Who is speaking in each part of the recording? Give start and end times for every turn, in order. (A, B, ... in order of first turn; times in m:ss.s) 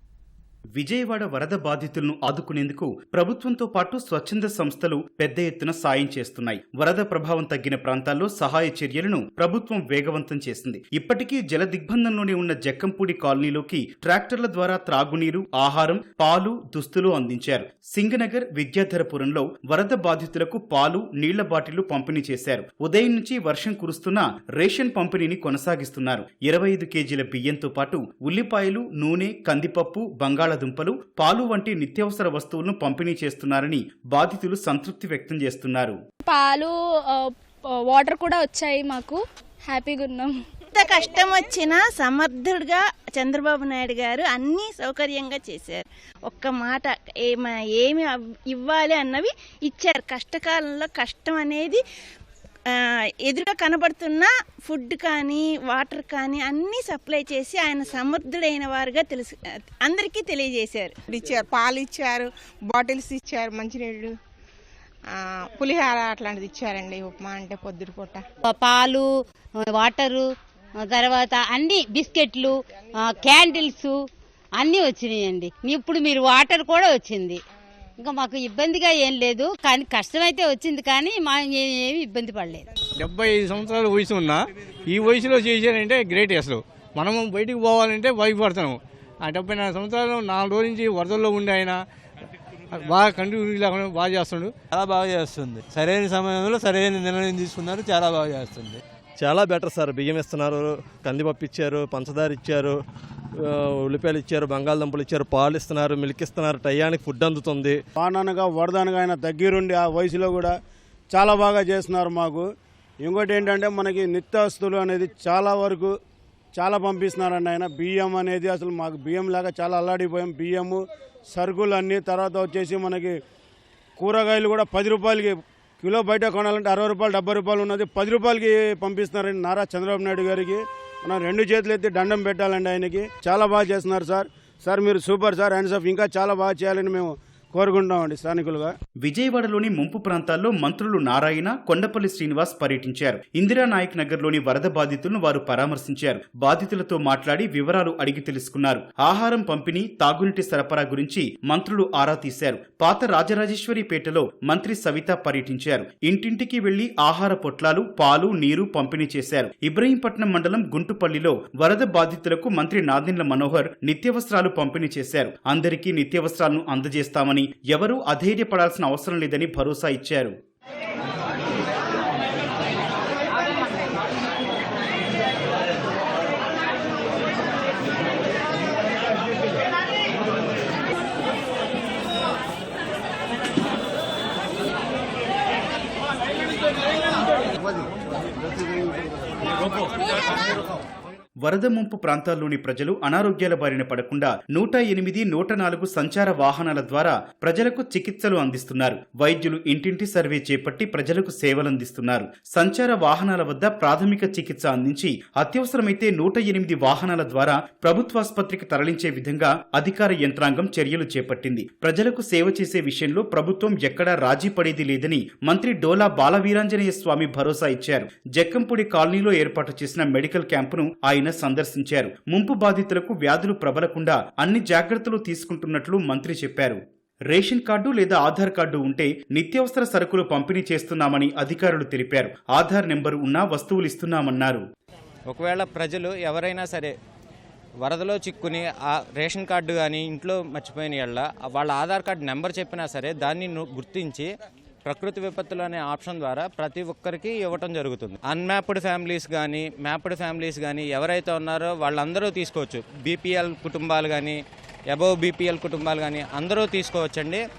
0:00.7-0:36.0 A
0:36.2-0:40.3 B
0:40.7-0:51.8 C
0:52.7-1:00.9 C
1:01.1-1:04.1 D
1:05.1-1:08.2 D
1:08.4-1:09.1 E
1:09.7-1:10.2 E
1:10.8-1:13.9 E
1:14.6-1:17.4 E
1:18.0-1:22.6 E
1:23.0-1:31.8 F
1:32.7-1:34.5 F
1:34.7-1:38.8 G
1:39.2-1:42.7 H
1:43.4-1:47.8 H
1:48.0-1:50.5 I
1:51.1-1:52.5 I
1:53.0-1:55.9 I
1:56.5-2:03.1 I
2:04.0-2:18.7 I
2:19.0-2:50.3 A
3:11.4-3:46.8 A
3:47.3-3:54.6 A
3:55.3-3:56.9 J
3:57.8-4:04.3 J
4:04.8-4:14.4 J
4:14.9-4:17.4 J